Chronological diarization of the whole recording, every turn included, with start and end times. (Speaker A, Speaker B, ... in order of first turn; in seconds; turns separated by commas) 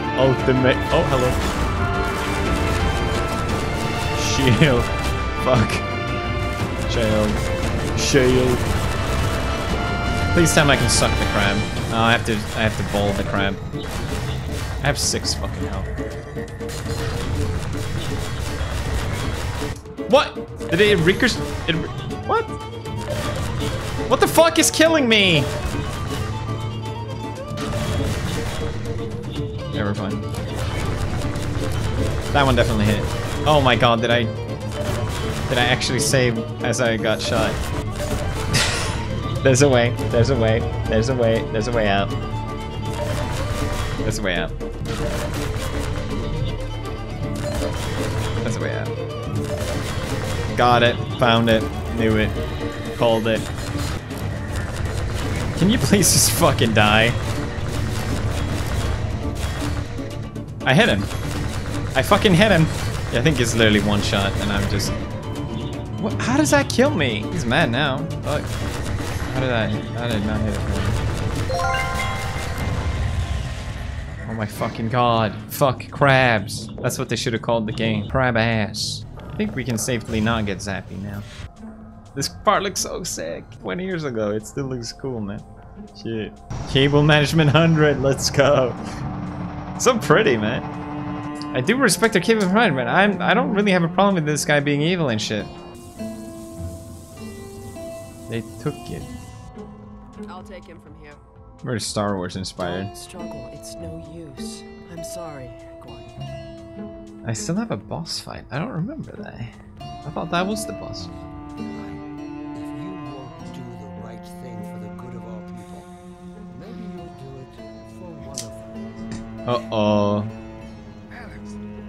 Speaker A: 0.2-1.4, Speaker A: 4.2-5.9, Speaker A: 6.9-7.4, Speaker A: 8.0-8.7, Speaker A: 10.3-13.6, Speaker A: 14.8-15.9, Speaker A: 20.1-22.5, Speaker A: 24.1-25.5, Speaker A: 29.7-30.2, Speaker A: 32.3-34.3, Speaker A: 35.5-37.6, Speaker A: 38.5-38.8, Speaker A: 39.4-42.1, Speaker A: 44.0-44.5, Speaker A: 48.4-48.9, Speaker A: 50.6-52.4, Speaker A: 52.9-53.4, Speaker A: 55.6-57.2, Speaker A: 60.6-61.1, Speaker A: 62.0-65.0, Speaker A: 66.0-68.5, Speaker A: 69.3-71.0, Speaker A: 74.3-81.3, Speaker A: 82.2-85.4, Speaker A: 86.0-88.8, Speaker A: 89.8-90.7, Speaker A: 91.5-95.5, Speaker A: 98.3-99.1, Speaker B: 100.2-101.2, Speaker A: 101.6-102.9, Speaker B: 102.6-106.3, Speaker A: 107.2-111.1, Speaker C: 111.7-115.9, Speaker C: 116.5-119.1, Speaker A: 119.5-120.3, Speaker C: 121.1-121.5